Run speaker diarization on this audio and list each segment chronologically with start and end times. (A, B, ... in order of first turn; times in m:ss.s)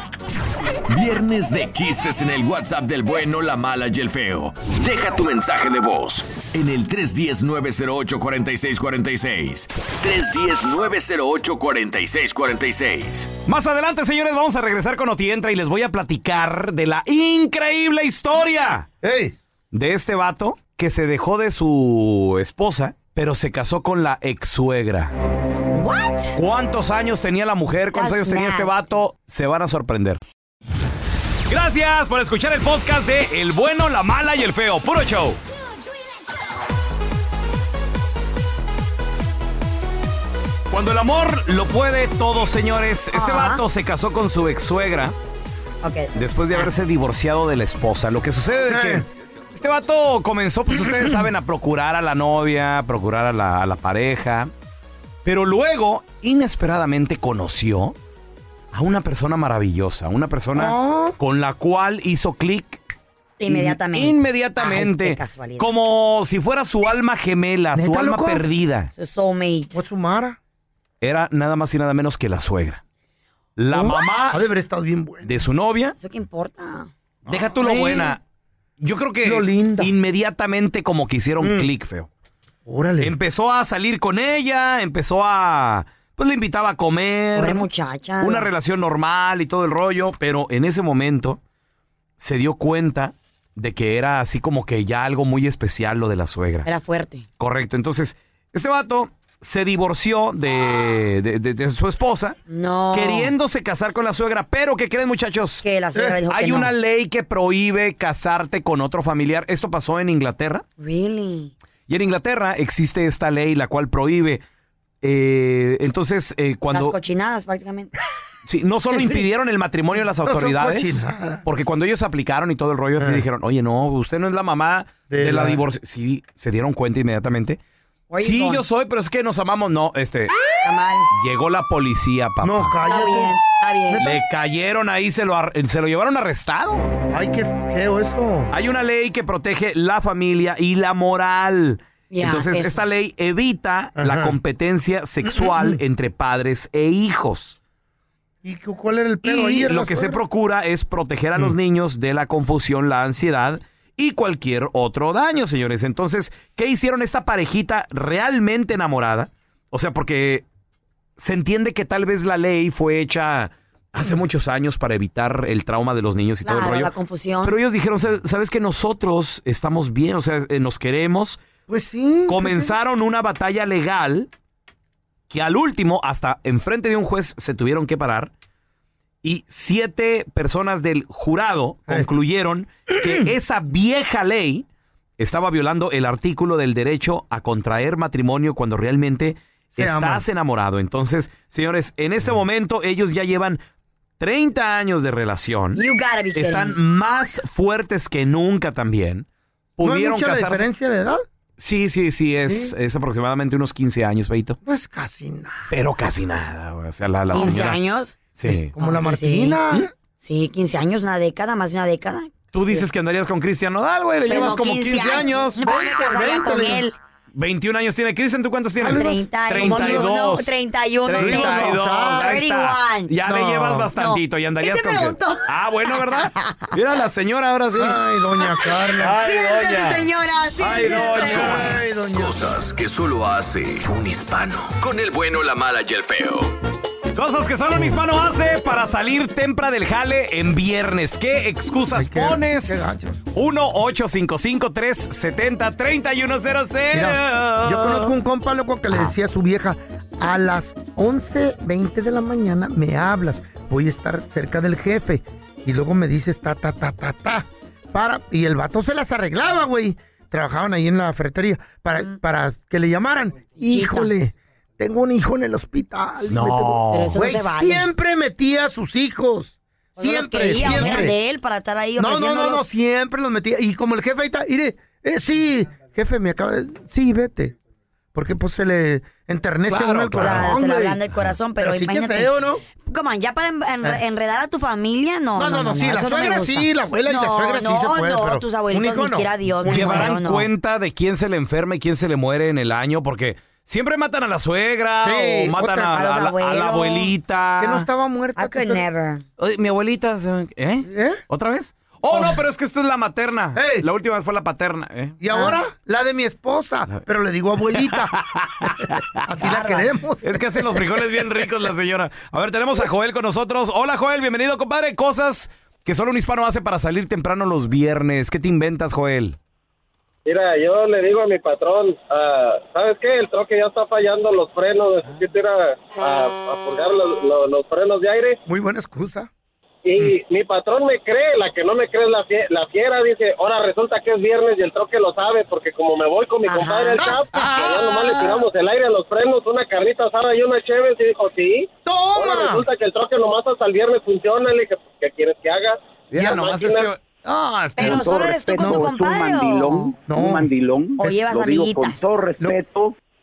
0:00.9-0:13.3 A
0:13.5-0:18.9 B
0:19.0-0:19.3 C
0:19.7-0:25.1 B
0:25.7-0:26.4 D
0:26.3-0:30.2 B
0:27.9-0:28.9 D
0:31.5-0:35.4 B
0:40.7-0:45.1 B
0:43.1-0:43.6 D
0:45.8-0:46.7 D
0:46.2-0:49.0 B
0:48.7-0:49.0 C
0:49.6-0:54.5 B
0:55.2-0:57.9 B
0:58.7-1:02.8 B
1:00.6-1:01.2 C
1:03.4-1:05.7 D
1:03.5-1:08.9 B
1:07.7-1:08.4 C
1:09.0-1:09.8 D
1:09.7-1:10.4 C
1:11.0-1:12.8 B
1:13.6-1:14.4 B
1:13.7-1:15.4 C
1:15.2-1:16.0 B
1:16.0-1:16.9 D
1:17.2-1:18.2 C
1:17.3-1:18.2 B
1:18.8-1:22.1 B
1:19.2-1:19.9 C
1:21.4-1:21.7 C
1:22.6-1:23.2 C
1:23.0-1:27.7 B
1:27.3-1:28.5 D
1:28.2-1:31.4 B
1:32.2-1:36.7 B
1:36.6-1:37.2 D
1:37.4-1:42.4 B
1:42.5-1:43.3 D
1:42.9-1:45.6 B
1:45.6-1:46.7 D
1:46.3-1:50.6 B
1:50.8-1:51.5 D
1:51.9-1:54.4 B
1:55.0-1:56.9 B
1:56.7-1:57.9 D
1:58.4-2:07.6 B
2:00.2-2:01.4 C
2:03.0-2:03.2 C
2:05.1-2:05.6 C
2:08.1-2:08.6 D
2:08.2-2:10.3 B
2:10.6-2:11.1 D
2:11.1-2:12.8 B
2:12.4-2:13.4 C
2:12.8-2:14.1 D
2:14.0-2:16.9 B
2:17.1-2:18.5 C
2:18.5-2:27.6 B
2:22.1-2:22.8 D
2:24.0-2:24.4 C
2:25.2-2:25.8 C
2:28.4-2:30.2 C
2:29.2-2:40.4 B
2:41.2-2:46.9 B
2:46.4-2:47.6 D
2:47.4-2:51.4 B
2:51.7-2:52.7 C
2:52.3-2:54.3 B
2:55.3-2:58.3 B
2:59.2-3:04.7 B
3:02.9-3:03.3 C
3:05.2-3:13.6 B
3:09.8-3:10.2 C
3:14.2-3:15.8 B
3:15.8-3:16.8 D
3:16.3-3:19.2 B
3:19.8-3:20.6 B
3:19.8-3:21.2 C
3:21.6-3:24.6 B
3:22.4-3:22.7 C
3:24.6-3:25.7 C
3:25.7-3:27.8 B
3:27.3-3:28.2 D
3:27.4-3:27.7 C
3:28.3-3:28.7 B
3:28.4-3:29.9 C
3:28.8-3:29.6 D
3:30.2-3:32.8 D
3:32.5-3:35.6 B
3:34.3-3:37.0 D
3:35.6-3:36.9 C
3:37.3-3:40.5 B
3:38.8-3:40.1 C
3:38.9-3:43.1 D
3:41.1-3:48.0 B
3:41.1-3:42.4 C
3:43.2-3:43.9 C
3:43.9-3:46.7 D
3:47.8-3:49.2 C
3:48.4-3:51.7 D
3:49.0-3:50.0 B
3:50.6-3:51.7 B
3:50.8-3:52.4 C
3:51.2-3:56.5 A
3:57.2-4:08.1 B
4:01.9-4:03.2 C
4:06.9-4:31.2 C
4:23.7-4:24.1 D
4:26.3-4:27.2 B
4:26.9-4:27.8 D
4:30.0-4:32.6 D
4:30.6-4:31.1 B
4:32.0-4:37.6 C
4:38.1-4:41.0 C
4:39.7-4:40.6 B
4:40.2-4:42.3 D
4:41.6-4:42.6 C
4:42.8-4:50.5 D
4:45.3-4:50.2 C
4:49.7-4:57.9 B
4:55.0-4:56.0 C
4:55.7-4:57.1 D
4:57.6-4:58.8 C
4:58.4-4:59.2 D
4:59.4-5:05.2 B
5:00.8-5:01.2 C
5:02.1-5:02.4 C
5:03.6-5:03.8 C
5:05.2-5:10.8 C
5:05.3-5:05.6 D
5:07.9-5:09.1 B
5:09.4-5:09.9 D
5:10.2-5:19.4 B
5:20.2-5:28.4 E
5:28.4-5:29.3 C
5:29.8-5:46.9 E
5:36.4-5:37.2 D
5:37.0-5:38.4 C
5:37.4-5:37.6 B
5:41.8-5:42.7 C
5:46.1-5:48.8 B
5:47.8-5:49.9 D
5:48.6-5:48.8 C
5:50.1-5:50.5 C
5:50.2-5:51.1 B
5:51.0-5:52.1 D
5:52.3-5:52.6 B